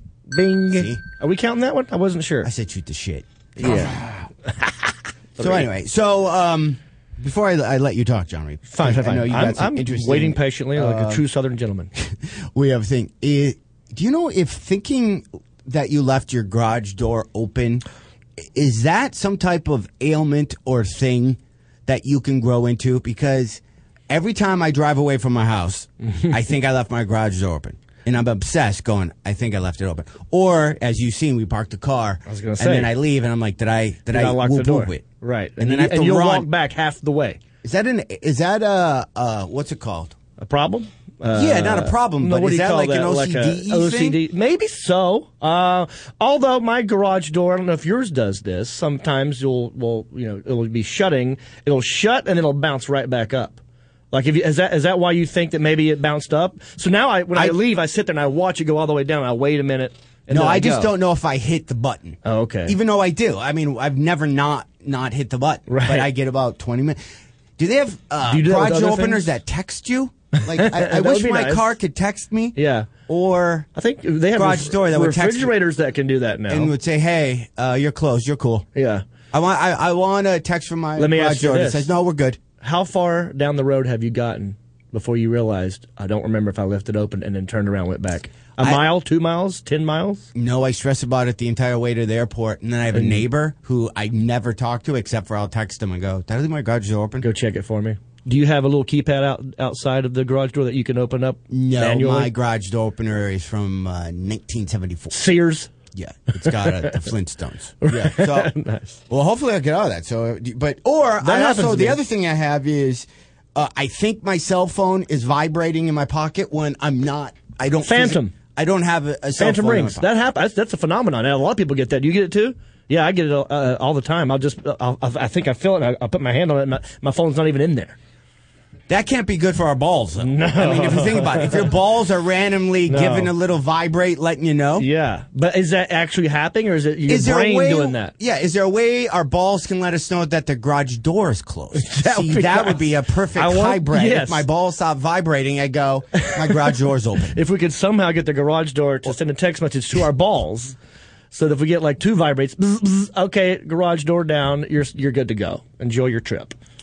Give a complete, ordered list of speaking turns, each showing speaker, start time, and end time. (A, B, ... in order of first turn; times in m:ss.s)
0:00.3-0:02.5 A
0:00.7-0:01.0 B
0:02.4-0:04.3 B
0:03.6-0:04.0 A
0:04.5-0:05.7 A
0:05.4-0:11.2 B
0:08.7-0:11.9 A
0:12.0-0:17.8 B
0:18.4-0:36.5 B
0:32.3-0:33.0 A
0:34.1-0:37.4 A
0:37.6-0:40.2 B
0:40.4-0:53.6 A
0:41.3-0:44.2 B
0:54.1-1:00.9 A
0:57.3-0:57.6 B
1:00.3-1:07.0 B
1:02.2-1:02.8 A
1:05.7-1:06.1 A
1:07.6-1:13.7 B
1:08.3-1:09.3 A
1:10.4-1:11.7 A
1:12.6-1:12.9 A
1:13.8-1:16.7 A
1:14.3-1:15.6 B
1:16.5-1:18.7 B
1:18.8-1:19.0 A
1:19.3-1:22.4 B
1:21.0-1:21.9 A
1:22.6-1:30.3 A
1:28.6-1:28.8 B
1:30.4-1:37.3 B
1:32.9-1:33.3 A
1:37.2-1:42.3 A
1:41.5-1:45.2 B
1:45.1-1:45.7 A
1:45.9-1:48.5 B
1:46.4-1:47.1 A
1:47.8-1:49.0 A
1:49.1-2:00.1 B
1:51.2-1:52.0 A
1:57.8-1:58.4 A
1:59.4-2:08.0 A
2:08.9-2:14.9 B
2:10.2-2:11.7 A
2:12.9-2:13.3 A
2:14.8-2:18.1 A
2:17.1-2:27.4 B
2:21.8-2:24.4 A
2:26.2-2:26.5 A
2:27.3-2:30.8 A
2:31.3-2:36.6 A